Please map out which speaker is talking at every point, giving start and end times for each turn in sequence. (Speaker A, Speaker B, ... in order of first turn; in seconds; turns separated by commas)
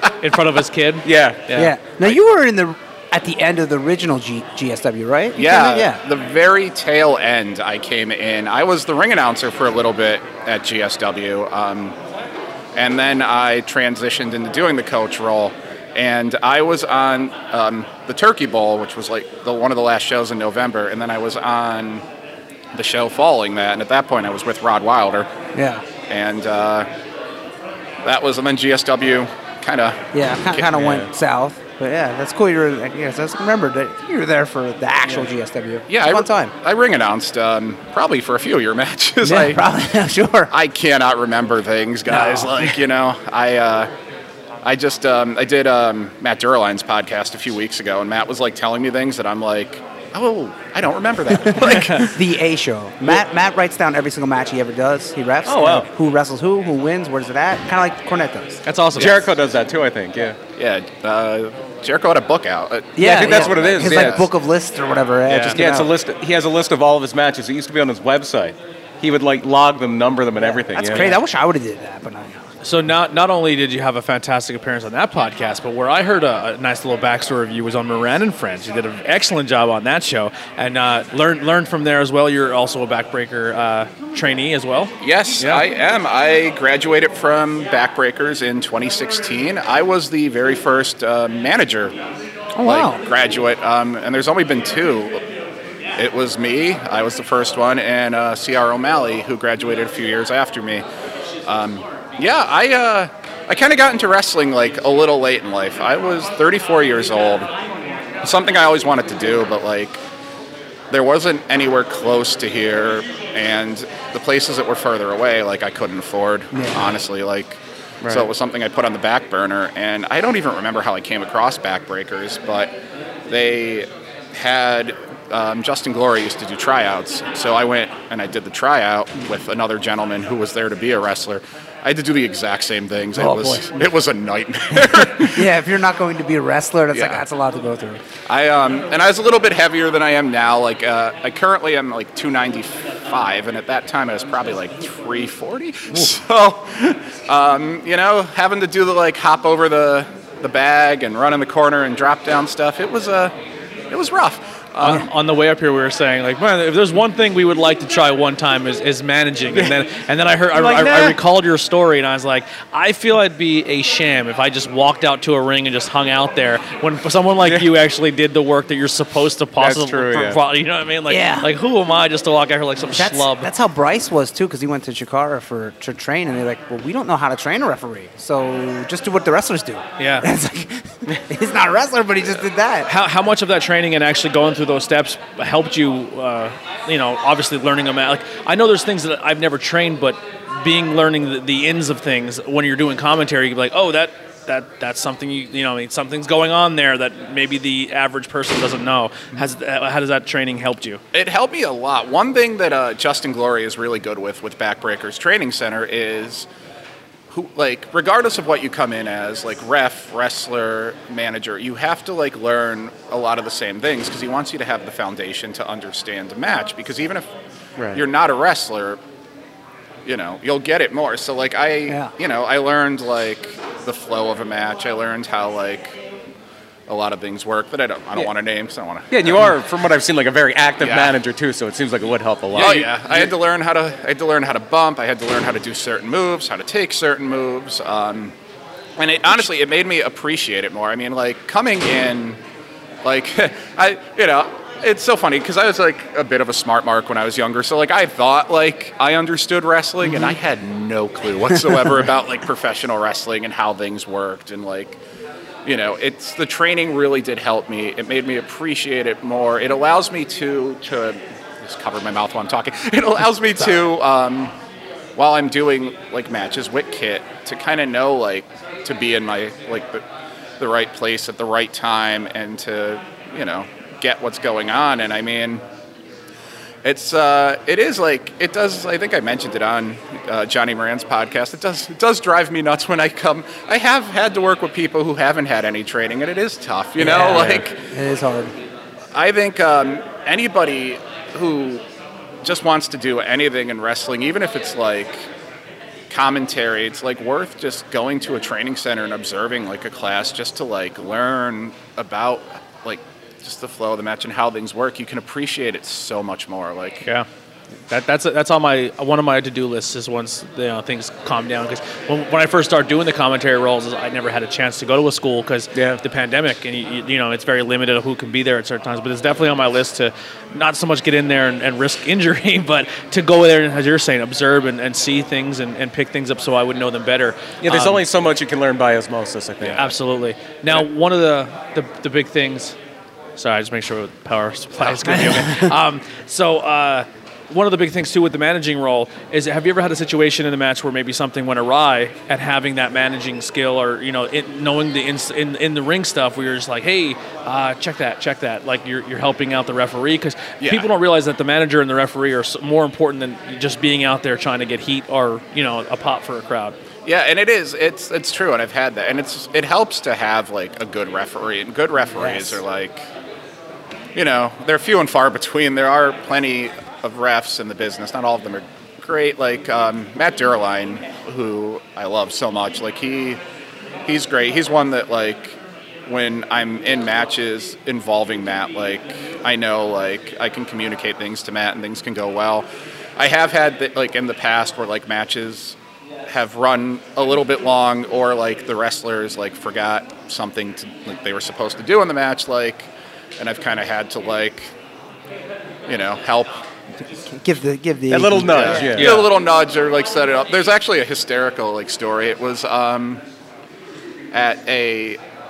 Speaker A: 0.2-1.7, Speaker B: 1.0-1.5, Speaker C: 1.5-6.0, Speaker D: 5.3-12.0, Speaker D: 12.7-22.0, Speaker D: 22.7-25.3, Speaker C: 25.5-25.8, Speaker D: 26.1-26.9, Speaker D: 28.0-30.7, Speaker C: 30.1-36.5, Speaker B: 30.8-31.1, Speaker D: 35.9-39.6, Speaker C: 39.2-40.5, Speaker D: 40.5-43.9, Speaker C: 42.1-42.8, Speaker D: 44.6-52.1, Speaker C: 51.3-58.6, Speaker A: 51.6-52.1, Speaker B: 55.4-55.9, Speaker A: 58.6-59.1, Speaker B: 58.9-60.4, Speaker D: 60.5-64.3, Speaker C: 63.0-65.9, Speaker B: 63.0-64.3, Speaker A: 65.3-65.6, Speaker B: 65.3-71.2, Speaker C: 70.4-72.4, Speaker A: 72.6-85.6, Speaker D: 85.0-91.9, Speaker C: 92.6-93.0, Speaker D: 92.6-95.2, Speaker D: 96.0-100.8, Speaker D: 101.5-107.5, Speaker D: 108.2-110.0, Speaker D: 110.9-122.7, Speaker C: 116.5-116.8, Speaker B: 118.0-118.3, Speaker D: 123.3-135.5, Speaker C: 133.2-133.7, Speaker C: 135.0-138.0, Speaker D: 136.9-137.2, Speaker D: 138.3-153.3, Speaker D: 153.9-155.1, Speaker A: 154.8-173.5, Speaker B: 159.5-159.8, Speaker B: 160.5-161.2, Speaker B: 167.4-167.7, Speaker B: 169.6-170.4, Speaker C: 171.1-171.5, Speaker C: 172.9-182.9, Speaker A: 180.0-180.3, Speaker A: 182.8-201.0, Speaker D: 201.1-206.5, Speaker D: 207.3-217.2, Speaker D: 217.9-219.0, Speaker D: 220.1-225.9, Speaker D: 226.9-229.5, Speaker B: 229.1-233.3, Speaker D: 230.8-231.2, Speaker D: 232.5-238.3, Speaker D: 239.0-242.4, Speaker D: 243.0-255.0, Speaker C: 250.0-250.3, Speaker D: 255.6-264.5, Speaker D: 265.1-270.0, Speaker D: 270.6-275.6, Speaker D: 276.8-287.8, Speaker C: 287.0-288.5, Speaker B: 287.3-287.6, Speaker D: 289.1-291.8, Speaker D: 292.4-295.2, Speaker D: 296.1-307.0, Speaker A: 307.9-328.0, Speaker B: 315.7-316.0, Speaker B: 327.6-329.9, Speaker A: 329.6-332.8, Speaker A: 333.4-356.8, Speaker C: 334.8-335.7, Speaker D: 350.6-350.9, Speaker D: 357.0-363.0, Speaker C: 362.1-362.6, Speaker D: 364.1-373.4, Speaker D: 374.1-382.6, Speaker D: 383.2-385.8, Speaker D: 386.3-394.7, Speaker D: 395.9-396.6, Speaker C: 397.0-399.0, Speaker B: 398.1-399.3, Speaker D: 398.4-403.2, Speaker A: 398.9-399.3, Speaker D: 404.3-405.2